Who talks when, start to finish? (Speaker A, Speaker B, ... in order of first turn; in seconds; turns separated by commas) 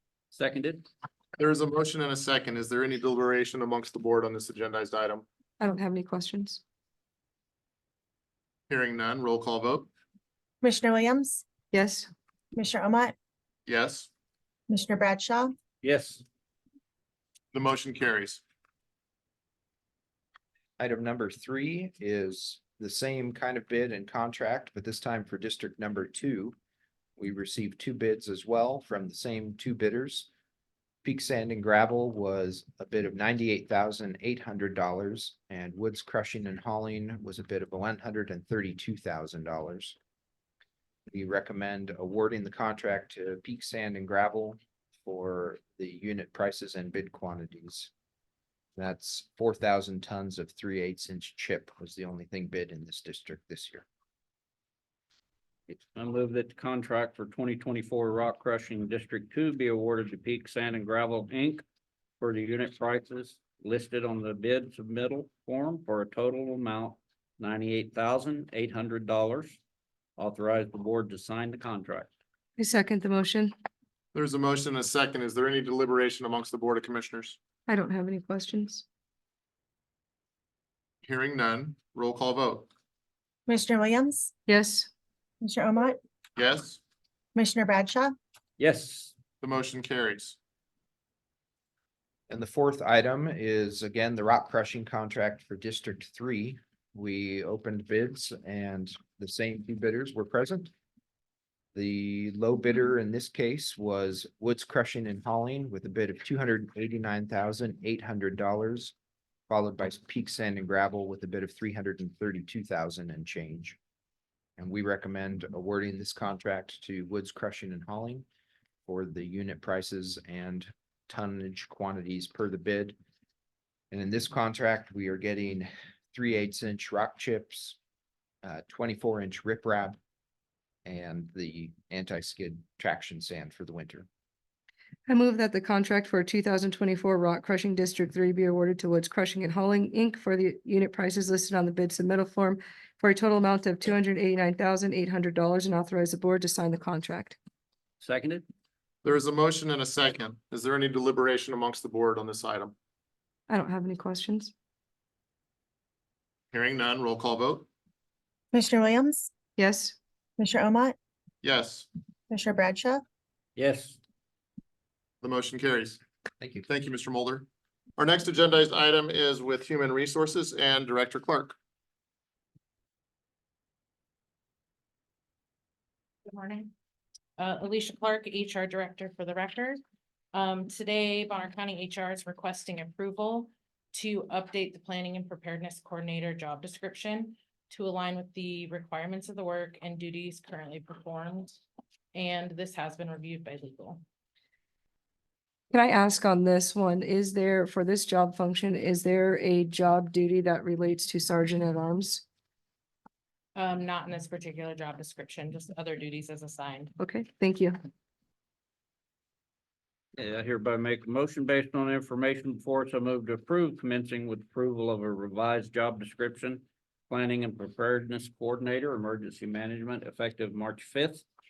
Speaker A: 0.3-0.9, Speaker B: 1.4-5.2, Speaker C: 5.6-6.6, Speaker B: 8.7-9.9, Speaker D: 10.6-11.4, Speaker C: 11.7-12.1, Speaker D: 12.6-13.2, Speaker B: 13.7-14.1, Speaker D: 14.7-15.5, Speaker A: 15.8-16.2, Speaker B: 17.5-18.4, Speaker E: 20.8-26.6, Speaker E: 27.2-30.3, Speaker E: 31.0-40.0, Speaker E: 41.1-47.9, Speaker E: 48.8-53.9, Speaker A: 55.7-61.6, Speaker A: 62.2-69.6, Speaker A: 70.2-72.1, Speaker C: 72.6-73.5, Speaker B: 74.1-77.4, Speaker C: 77.7-78.8, Speaker B: 81.0-82.7, Speaker D: 83.5-84.3, Speaker C: 84.5-84.9, Speaker D: 85.4-86.0, Speaker B: 86.4-86.8, Speaker D: 87.3-88.2, Speaker A: 88.6-89.1, Speaker B: 89.4-90.4, Speaker E: 92.3-100.7, Speaker E: 101.7-109.0, Speaker E: 109.5-113.8, Speaker E: 114.6-118.3, Speaker E: 118.9-123.0, Speaker E: 123.9-127.8, Speaker E: 128.4-130.0, Speaker E: 130.8-134.1, Speaker C: 135.1-147.4, Speaker A: 148.0-148.4, Speaker B: 149.0-152.7, Speaker C: 153.5-154.5, Speaker B: 156.5-157.7, Speaker D: 158.5-159.3, Speaker C: 159.6-160.0, Speaker D: 160.4-161.0, Speaker B: 161.4-161.9, Speaker D: 162.3-163.0, Speaker A: 163.6-164.0, Speaker B: 165.2-166.0, Speaker E: 166.4-166.7, Speaker B: 166.7-171.6, Speaker F: 176.3-176.7, Speaker F: 177.4-179.8, Speaker F: 180.3-191.6, Speaker F: 192.1-194.0, Speaker C: 195.7-202.2, Speaker F: 203.6-206.9, Speaker C: 207.0-207.8, Speaker A: 210.2-221.3